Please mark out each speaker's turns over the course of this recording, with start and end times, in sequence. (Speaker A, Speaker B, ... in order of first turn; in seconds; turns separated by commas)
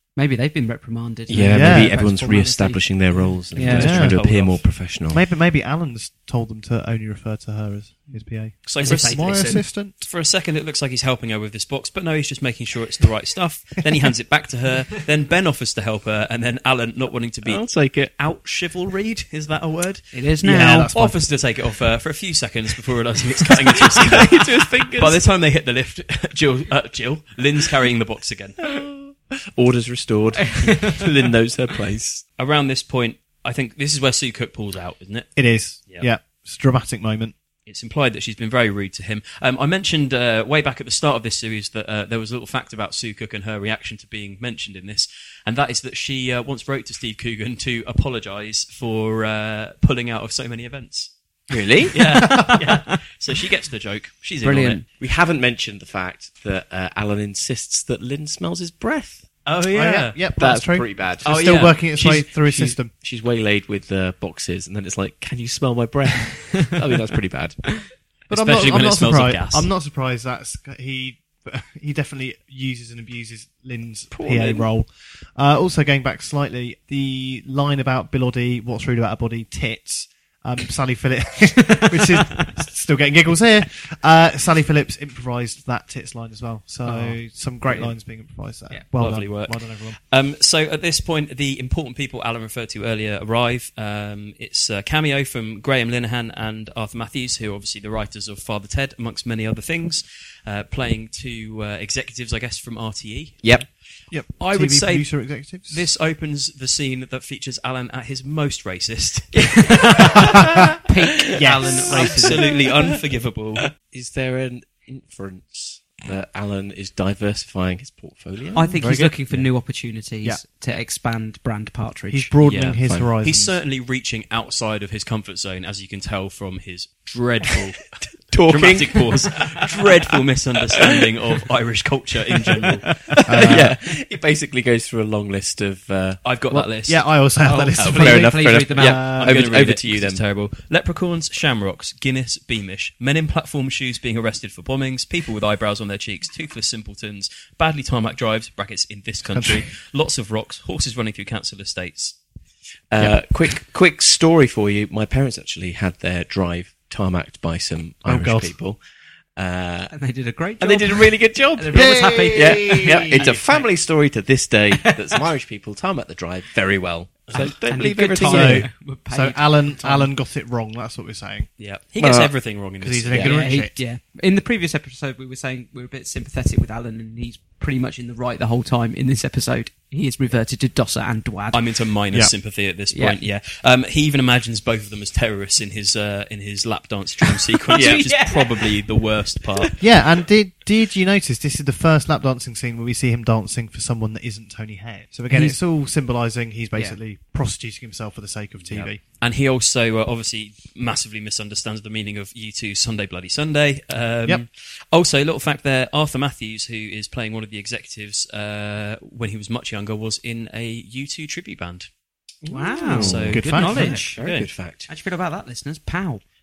Speaker A: 0.2-4.1, Speaker B: 1.3-5.2, Speaker C: 1.5-2.0, Speaker D: 3.6-4.7, Speaker C: 3.6-4.2, Speaker C: 5.1-10.0, Speaker D: 8.7-20.1, Speaker A: 8.8-9.7, Speaker B: 17.4-18.1, Speaker A: 20.1-20.9, Speaker C: 20.4-21.2, Speaker D: 20.9-28.6, Speaker B: 23.7-25.2, Speaker B: 28.6-32.2, Speaker A: 30.5-30.9, Speaker D: 32.4-35.3, Speaker C: 35.4-37.3, Speaker D: 37.7-51.1, Speaker B: 51.5-52.0, Speaker D: 51.9-54.8, Speaker A: 54.4-54.8, Speaker B: 54.9-59.3, Speaker D: 59.5-60.2, Speaker C: 59.7-62.9, Speaker B: 60.4-67.6, Speaker D: 61.2-62.3, Speaker C: 68.3-90.0, Speaker D: 68.3-69.7, Speaker B: 74.1-74.7, Speaker A: 86.9-87.2, Speaker D: 88.9-103.6, Speaker C: 104.1-105.9, Speaker D: 104.4-105.2, Speaker D: 105.7-109.6, Speaker A: 109.7-110.3, Speaker A: 110.8-112.5, Speaker C: 111.4-112.2, Speaker D: 111.9-113.7, Speaker B: 112.0-112.9, Speaker B: 113.8-118.8, Speaker A: 118.5-122.3, Speaker C: 118.6-119.2, Speaker C: 122.1-123.6, Speaker D: 122.5-127.9, Speaker B: 122.8-123.1, Speaker B: 128.3-129.8, Speaker D: 128.4-132.9, Speaker B: 133.1-136.2, Speaker C: 133.3-133.8, Speaker D: 136.2-137.2, Speaker C: 136.5-139.4, Speaker A: 137.4-139.2, Speaker D: 137.8-138.2, Speaker B: 137.8-140.2, Speaker D: 139.0-152.2, Speaker C: 149.3-149.7, Speaker B: 152.9-158.8, Speaker C: 158.0-158.6, Speaker B: 159.4-159.9, Speaker A: 159.9-163.7, Speaker B: 160.6-168.7, Speaker C: 161.7-163.4, Speaker A: 164.7-165.3, Speaker A: 167.3-170.1, Speaker C: 168.2-171.5, Speaker D: 171.6-173.4, Speaker B: 172.0-172.3, Speaker C: 172.8-173.8, Speaker A: 173.2-181.6, Speaker D: 181.5-189.7, Speaker A: 182.9-183.2, Speaker B: 187.7-188.1, Speaker A: 187.7-188.7, Speaker C: 189.8-199.0, Speaker D: 198.6-211.9, Speaker B: 212.5-214.9, Speaker A: 212.5-214.2, Speaker D: 212.9-214.5, Speaker C: 213.2-214.1, Speaker A: 214.9-216.2